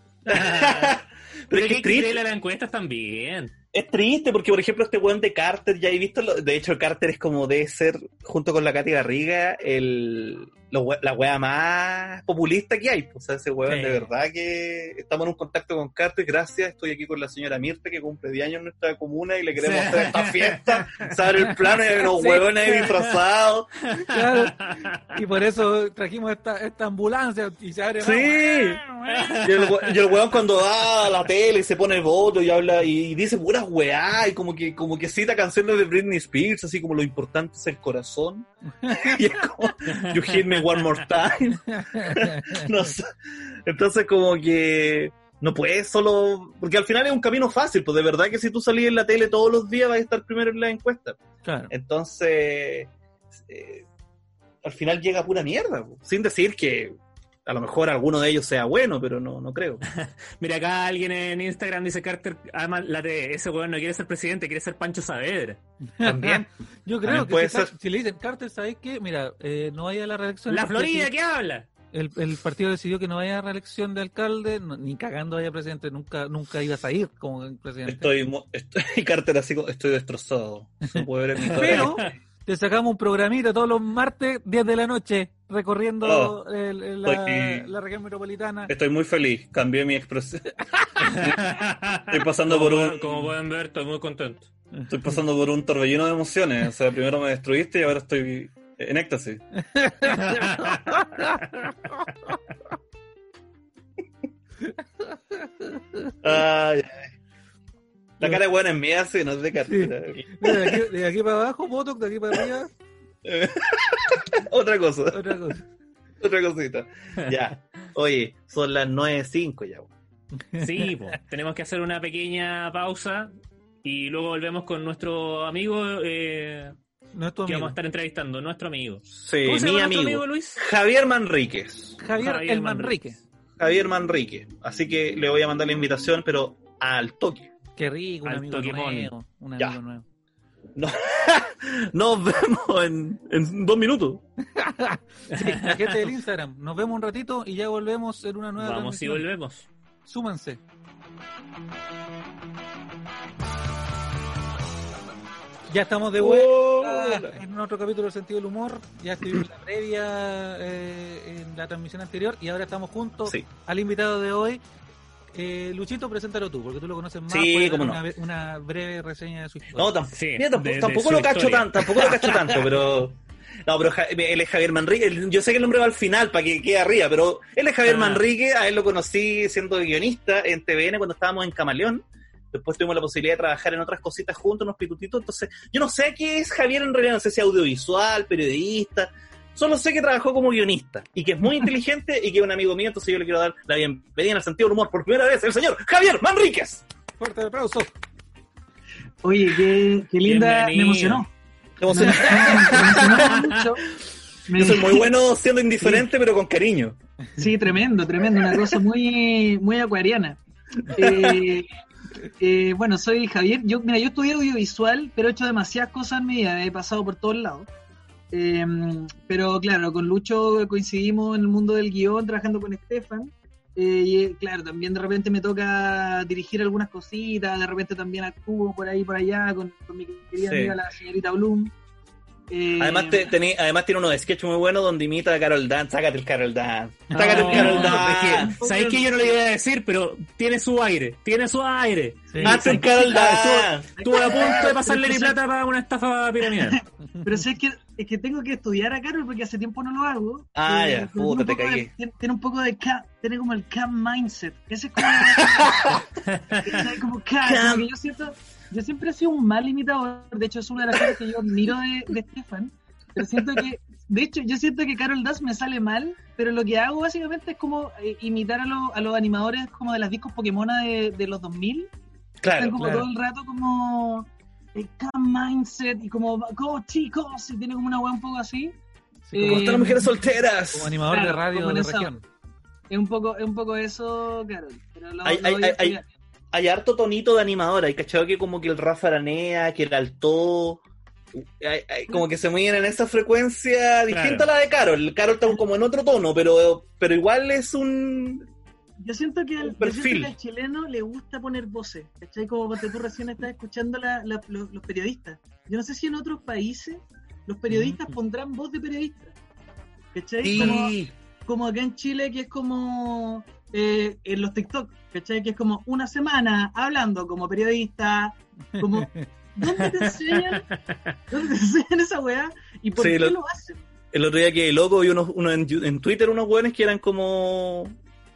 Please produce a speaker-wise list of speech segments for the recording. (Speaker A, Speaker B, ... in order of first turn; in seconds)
Speaker A: 0.2-1.0, 1.5-3.5, 19.6-21.0, 23.9-25.0, 29.1-29.9, 39.9-40.6, 59.9-65.6, 70.5-71.7, 81.6-82.1, 91.0-94.5, 100.3-100.7, 120.6-123.3, 123.8-126.8, 127.5-130.6, 132.2-133.0, 138.2-139.1, 145.3-146.0, 148.6-149.7, 170.1-172.1, 177.8-178.2, 200.2-201.2, 203.0-203.6, 237.1-246.8, 256.3-256.7, 294.1-294.5, 319.7-321.1
Speaker B: 0.3-2.2, 3.7-23.7, 28.0-28.8, 29.4-53.9, 54.6-56.9, 57.4-59.8, 66.0-66.5, 67.0-67.7, 77.8-82.1, 86.0-86.4, 87.0-87.7, 88.7-91.5, 92.1-93.3, 94.9-99.4, 106.2-107.1, 108.2-110.9, 113.2-115.4, 116.2-119.9, 129.1-132.0, 133.6-137.5, 140.7-144.2, 156.2-157.4, 167.3-168.0, 169.7-196.8, 201.8-203.6, 204.5-207.0, 210.8-211.5, 230.4-230.8, 232.8-238.5, 242.4-244.6, 250.6-251.9, 255.2-256.0, 257.4-257.9, 272.4-273.0, 279.4-281.0, 285.2-286.0, 286.5-290.8, 291.3-298.5, 299.6-300.3, 310.4-311.1, 322.9-323.4, 324.1-327.9
Speaker C: 13.7-14.1, 21.4-22.9, 24.0-29.6, 38.8-39.4, 41.7-42.9, 51.4-51.7, 66.0-71.1, 71.9-78.1, 80.9-88.7, 90.8-91.0, 99.6-102.1, 104.7-106.1, 109.6-112.7, 115.1-115.7, 120.4-120.8, 127.1-127.8, 132.0-133.2, 137.8-140.0, 144.4-149.2, 150.1-150.6, 155.7-164.6, 165.3-169.9, 172.1-172.6, 197.2-197.9, 202.0-202.8, 237.1-238.2, 242.3-242.8, 247.1-247.4, 272.8-273.1, 279.3-280.1, 280.7-282.2, 307.7-308.1, 318.8-319.3
Speaker D: 199.2-201.3, 201.9-203.8, 204.5-205.1, 207.4-211.7, 212.2-217.7, 218.3-231.7, 232.5-233.3, 237.5-239.4, 242.4-245.4, 246.5-256.0, 256.6-271.9, 272.6-278.7, 279.3-279.9, 281.0-282.2, 282.9-286.1, 299.0-309.3, 310.1-320.7, 321.3-323.8